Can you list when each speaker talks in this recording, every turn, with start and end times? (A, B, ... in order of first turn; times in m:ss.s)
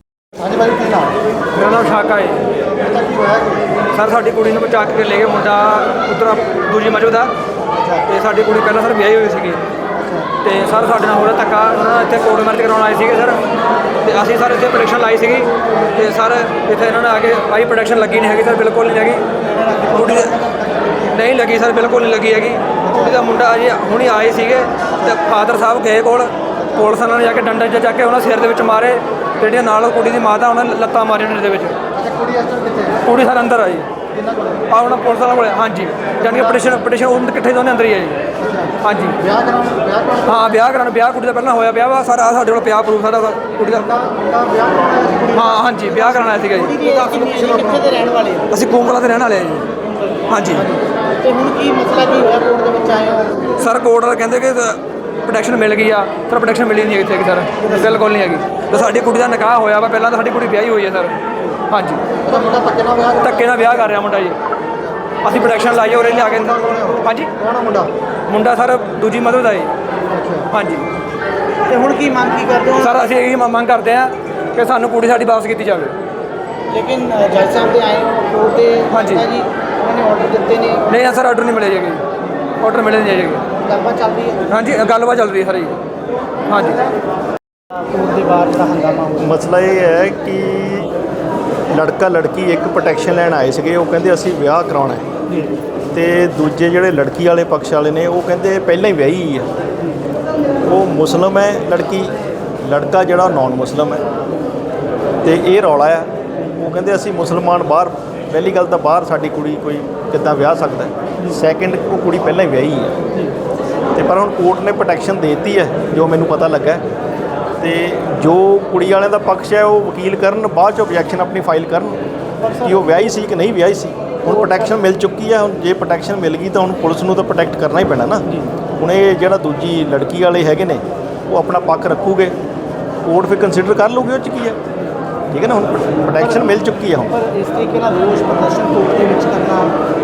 0:00.4-0:01.2 A
0:01.5-0:02.5 B
0:02.7-0:03.8 A
0:03.9-0:07.3 B
0:07.7-0:08.0 A
0:08.1-0:09.6 B
0:10.0-0:10.3 A
0:10.4-0:13.4 B
0:14.0-0:19.2 B
0:19.4-0:21.1 A
0:19.9-0:20.4 B
0:21.1-0:31.8 B
0:22.8-0:23.2 A
0:26.6-0:26.8 A
0:32.0-0:33.0 A
0:33.0-0:33.9 B
0:34.1-0:34.6 A
0:34.7-0:38.2 B
0:36.2-0:36.6 A
0:38.4-0:40.4 A
0:38.8-0:39.2 B
0:40.2-0:43.9 B
0:43.8-0:48.5 A
0:45.3-0:47.6 B
0:48.5-0:49.7 B
0:50.3-0:50.7 B
0:50.5-0:53.6 A
0:53.6-1:02.2 B
1:02.2-1:03.9 A
1:03.2-1:04.4 B
1:04.7-1:04.9 A
1:05.2-1:07.3 B
1:05.7-1:07.9 A
1:08.3-1:09.7 B
1:10.1-1:10.5 A
1:10.5-1:10.9 B
1:11.7-1:13.0 A
1:12.8-1:16.0 B
1:16.7-1:20.9 A
1:18.9-1:19.3 B
1:20.9-1:22.0 B
1:22.6-1:23.4 B
1:23.5-1:24.5 A
1:24.5-1:25.8 B
1:26.5-1:26.8 B
1:27.7-1:29.3 A
1:29.2-1:30.9 C
1:31.7-1:35.0 C
1:35.9-1:39.5 C
1:40.6-1:44.0 C
1:45.2-1:53.0 C
1:54.0-1:56.8 C
1:57.6-2:02.0 C
2:02.4-2:02.8 A
2:02.6-2:08.3 C
2:04.3-2:04.7 A
2:08.8-2:12.4 C
2:13.0-2:14.6 C
2:15.3-2:17.1 C
2:16.2-2:16.4 A
2:17.1-2:19.8 A